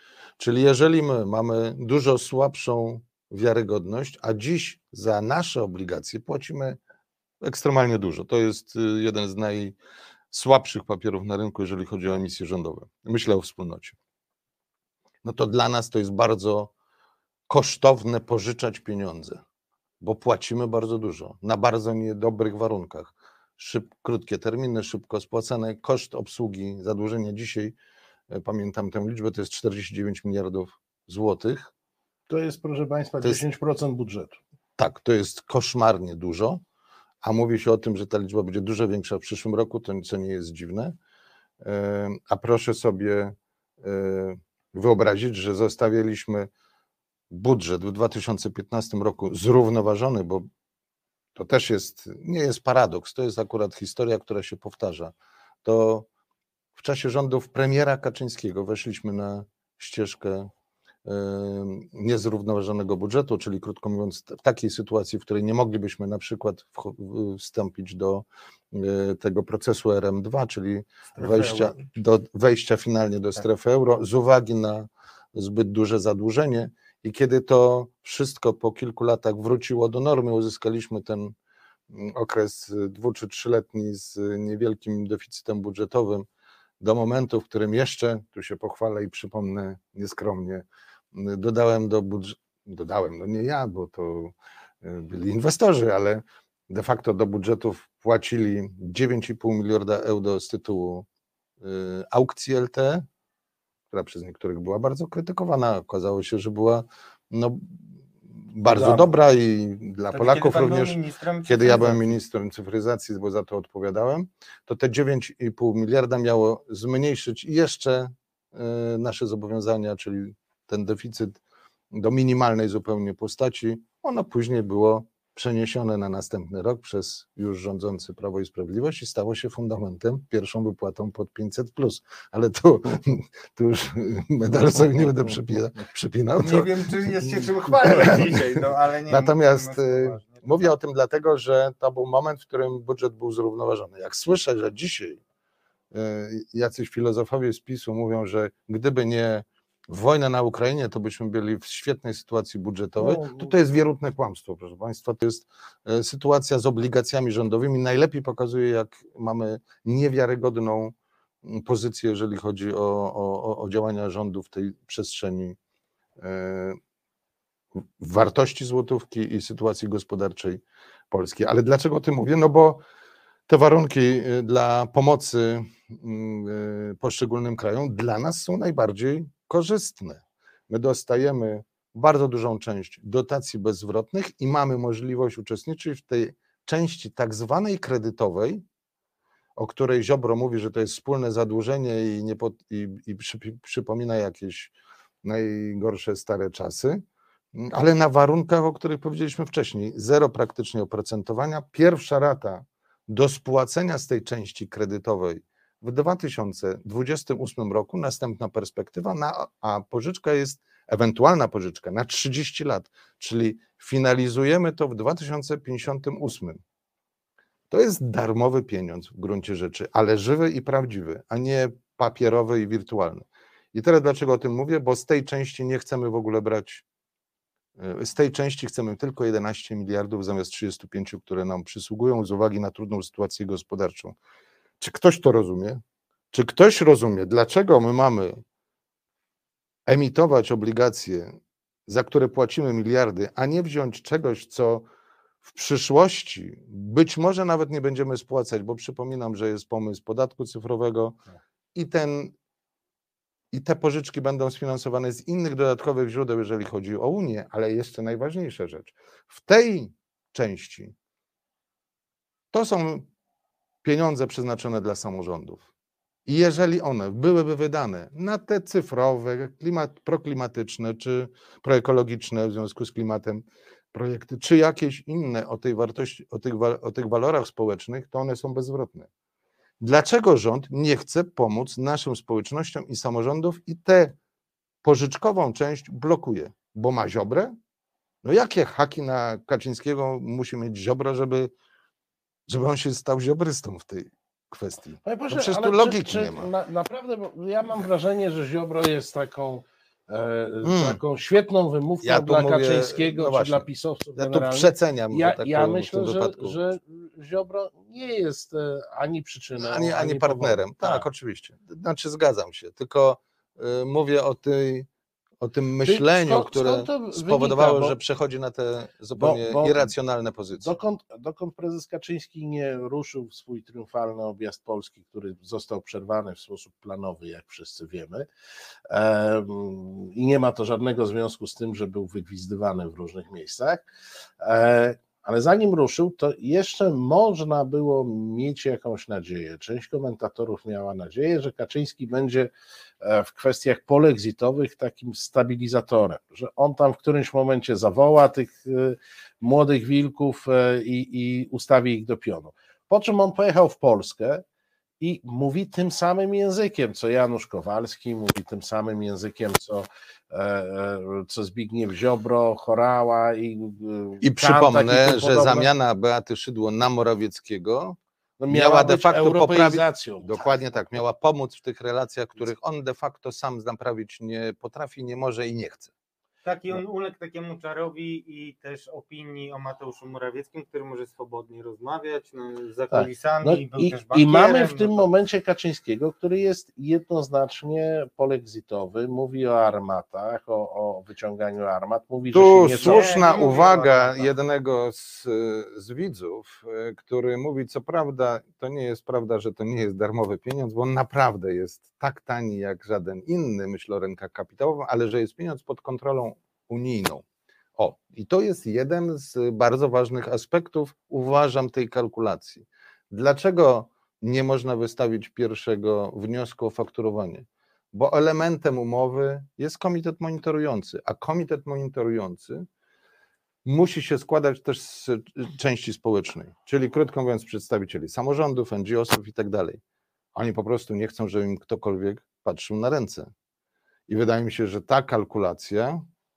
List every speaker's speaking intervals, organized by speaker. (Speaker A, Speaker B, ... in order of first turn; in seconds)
Speaker A: 0.4-6.8, 7.4-9.8, 10.3-14.0, 15.2-16.7, 17.5-19.4, 20.0-27.8, 28.3-31.7, 34.8-36.6, 37.2-41.0, 41.6-46.5, 47.3-50.5, 51.4-56.1, 56.8-60.5, 61.0-81.3, 81.9-86.3, 86.8-101.1, 101.6-103.0, 103.9-121.4, 121.9-136.7, 137.2-145.2, 145.9-165.6, 166.2-166.8, 168.0-172.8, 173.5-188.6, 189.6-197.0, 197.5-216.6, 217.7-226.8, 227.8-234.2, 234.8-235.8, 236.3-238.4, 239.9-244.9, 245.4-251.2, 251.8-252.3, 253.5-260.9, 262.5-263.1, 263.8-265.7, 266.3-279.1, 279.8-284.2, 284.8-287.5, 288.2-291.5, 292.5-296.5, 300.6-301.0, 302.0-306.6, 309.6-314.9, 315.4-320.7, 364.2-368.0, 368.5-375.9, 392.3-407.2, 407.8-422.7, 423.6-429.8, 430.4-433.3, 434.1-436.0
Speaker B: 32.3-34.4, 108.7-109.1, 153.0-153.5, 295.0-311.1, 315.8-318.0, 319.2-319.9, 320.6-328.3, 328.9-333.9, 334.4-342.5, 343.0-354.4, 355.0-365.7, 368.4-370.4, 382.9-393.1
Speaker C: 71.2-71.8, 110.1-112.2, 136.4-140.7, 376.4-385.1, 392.8-394.3